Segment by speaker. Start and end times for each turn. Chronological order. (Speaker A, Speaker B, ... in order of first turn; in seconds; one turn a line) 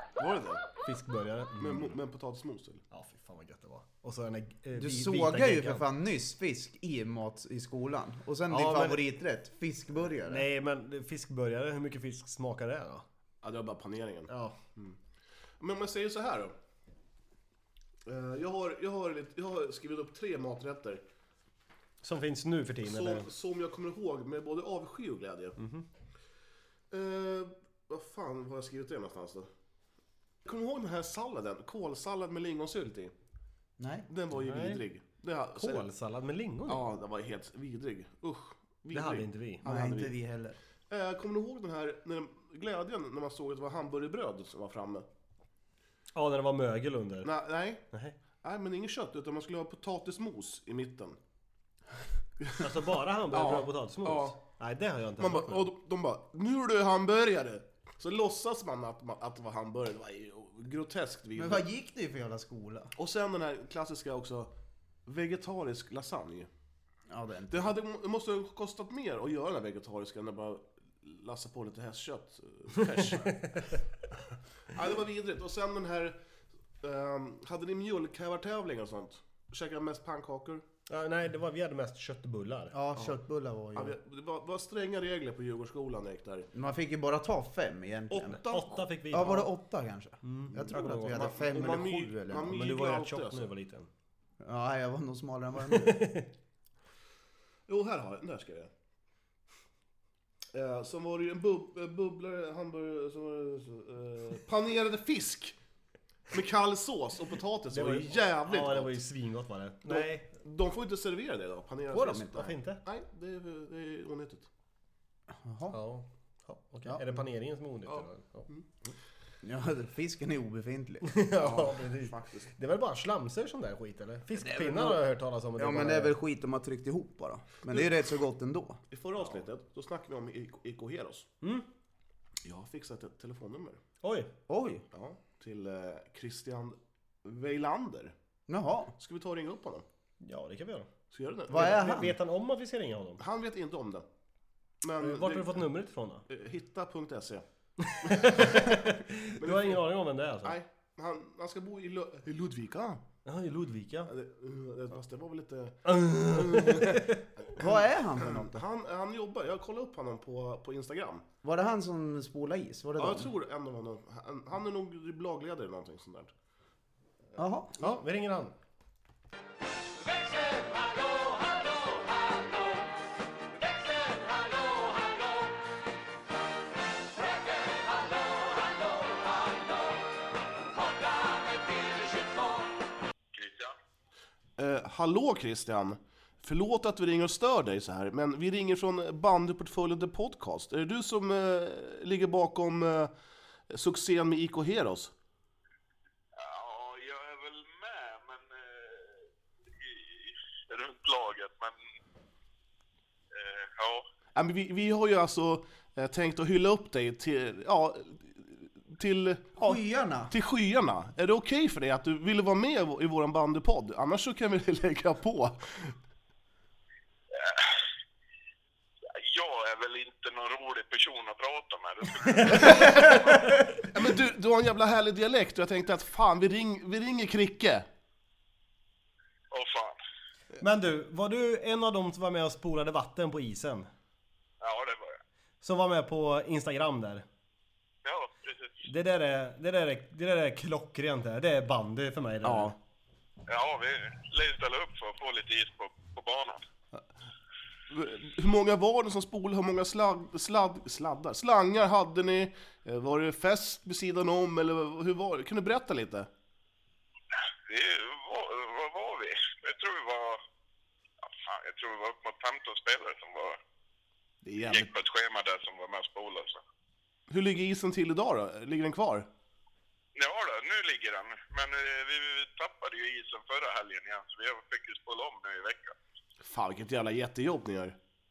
Speaker A: 0.2-0.7
Speaker B: 0.8-1.9
Speaker A: 1.6-2.8
Speaker B: 2.9-5.9
Speaker C: 4.8-10.5
Speaker B: 8.5-9.1
Speaker B: 10.2-13.1
Speaker A: 13.4-15.0
Speaker B: 14.3-14.6
Speaker A: 15.6-16.6
Speaker A: 18.1-21.0
Speaker B: 22.0-23.3
Speaker A: 22.8-25.6
Speaker B: 25.6-25.9
Speaker A: 26.9-29.5
Speaker A: 30.4-33.1
Speaker C: 33.8-34.1
Speaker A: 34.1-35.9
Speaker B: 34.4-34.8
Speaker B: 35.5-36.9
Speaker A: 36.7-40.2
Speaker B: 38.9-39.6
Speaker C: 39.6-40.6
Speaker A: 40.9-45.1
Speaker B: 46.1-47.3
Speaker A: 47.2-47.8
Speaker B: 47.9-48.2
Speaker A: 48.4-51.2
Speaker B: 52.6-55.7
Speaker A: 53.3-54.4
Speaker A: 55.2-61.6
Speaker C: 61.4-62.9
Speaker A: 63.0-64.5
Speaker A: 65.1-66.5
Speaker C: 67.1-67.8
Speaker A: 67.5-73.6
Speaker B: 73.5-73.8
Speaker A: 74.7-76.2
Speaker A: 76.8-80.6
Speaker B: 80.9-82.8
Speaker C: 82.7-84.0
Speaker A: 83.7-86.5
Speaker C: 86.5-88.4
Speaker A: 88.1-89.4
Speaker B: 88.4-89.5
Speaker C: 89.1-92.6
Speaker B: 90.2-91.8
Speaker A: 91.1-93.5
Speaker B: 92.4-93.9
Speaker C: 94.4-96.1
Speaker B: 95.7-96.3
Speaker A: 97.7-98.7
Speaker A: 100.5-105.6
Speaker A: 106.3-109.0
Speaker B: 107.7-110.3
Speaker A: 109.8-114.5
Speaker C: 111.9-112.5
Speaker B: 112.3-112.8
Speaker C: 115.3-115.8
Speaker B: 115.7-118.5
Speaker A: 117.9-118.7
Speaker C: 119.4-121.1
Speaker B: 121.0-126.1
Speaker A: 121.4-122.5
Speaker C: 124.7-124.9
Speaker C: 125.6-128.8
Speaker A: 128.9-131.3
Speaker A: 132.4-133.8
Speaker B: 134.0-134.3
Speaker C: 134.5-134.8
Speaker A: 134.9-138.1
Speaker C: 138.5-138.9
Speaker A: 139.0-139.8
Speaker B: 140.2-140.9
Speaker A: 141.1-141.8
Speaker C: 141.5-142.2
Speaker B: 141.5-143.2
Speaker A: 143.2-144.1
Speaker A: 144.8-145.7
Speaker B: 145.0-146.2
Speaker A: 146.3-147.4
Speaker B: 147.8-150.6
Speaker A: 148.0-149.9
Speaker A: 150.4-153.0
Speaker B: 153.2-154.1
Speaker A: 154.1-161.2
Speaker B: 155.9-157.3
Speaker C: 157.6-158.6
Speaker C: 161.4-163.3
Speaker A: 163.0-166.3
Speaker C: 167.4-167.7
Speaker B: 167.8-168.5
Speaker D: 183.3-183.8
Speaker A: 184.6-193.1
Speaker A: 193.7-195.1
Speaker D: 196.3-201.8
Speaker D: 203.3-204.1
Speaker A: 204.4-216.0
Speaker C: 209.6-210.3
Speaker D: 217.3-217.7
Speaker D: 219.1-223.6
Speaker A: 222.5-223.3
Speaker A: 223.9-227.9
Speaker D: 229.5-230.0
Speaker B: 230.6-233.9
Speaker D: 234.6-235.2
Speaker B: 235.6-237.2
Speaker D: 238.0-238.8
Speaker B: 238.8-242.8
Speaker A: 242.4-242.8
Speaker D: 243.5-246.6
Speaker A: 247.9-256.3
Speaker D: 257.7-260.4
Speaker D: 261.2-263.6
Speaker A: 264.4-264.9
Speaker D: 264.6-266.6
Speaker A: 267.3-269.3
Speaker D: 270.1-276.0
Speaker A: 276.4-278.0